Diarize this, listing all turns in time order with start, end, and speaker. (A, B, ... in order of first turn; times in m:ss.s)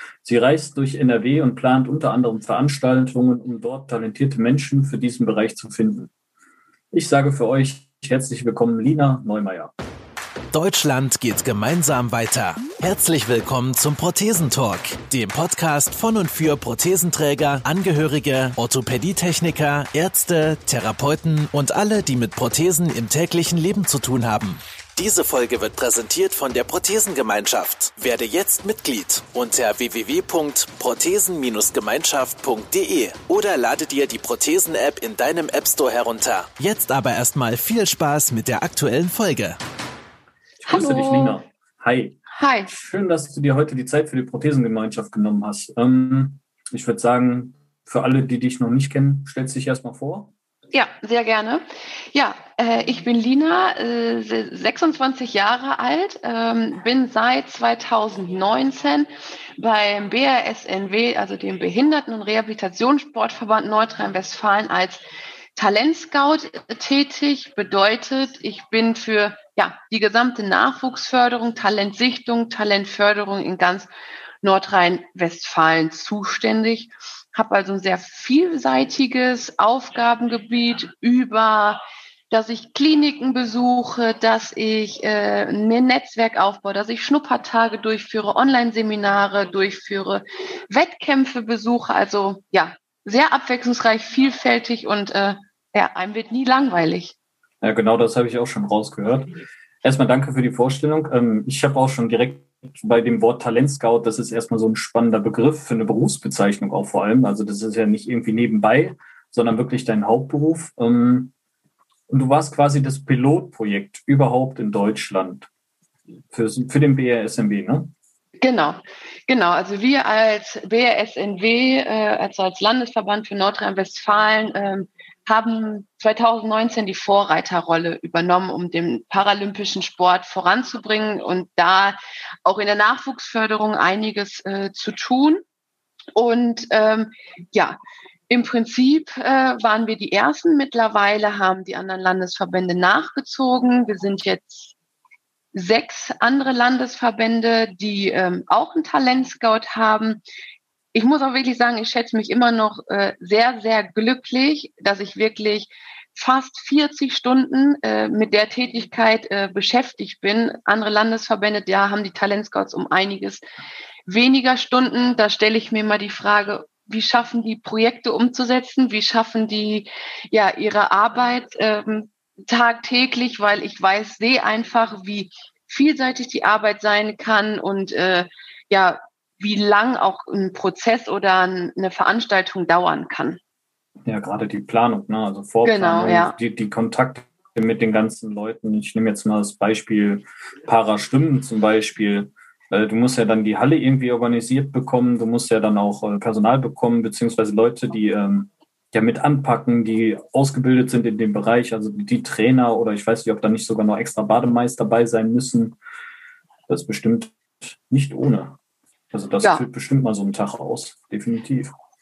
0:00.2-0:06.1 A
0:06.9-0:09.7 A
0:10.5-0:39.6 B
0:40.6-0:50.3 A
0:40.7-0:41.4 C
0:42.3-0:42.7 C
0:50.7-1:05.0 C
1:05.6-1:13.9 C
1:14.4-1:37.1 C
1:37.6-1:51.3 A
1:52.1-1:55.5 A
1:56.3-1:57.9 A
1:58.4-2:15.4 C
2:16.2-2:17.8 C
2:18.3-2:24.7 C
2:25.5-2:30.2 C
2:30.9-2:43.4 C
2:44.1-3:03.4 C
3:04.1-3:25.8 A
3:05.6-3:06.4 C
3:26.7-3:28.6 A
3:29.1-3:31.7 A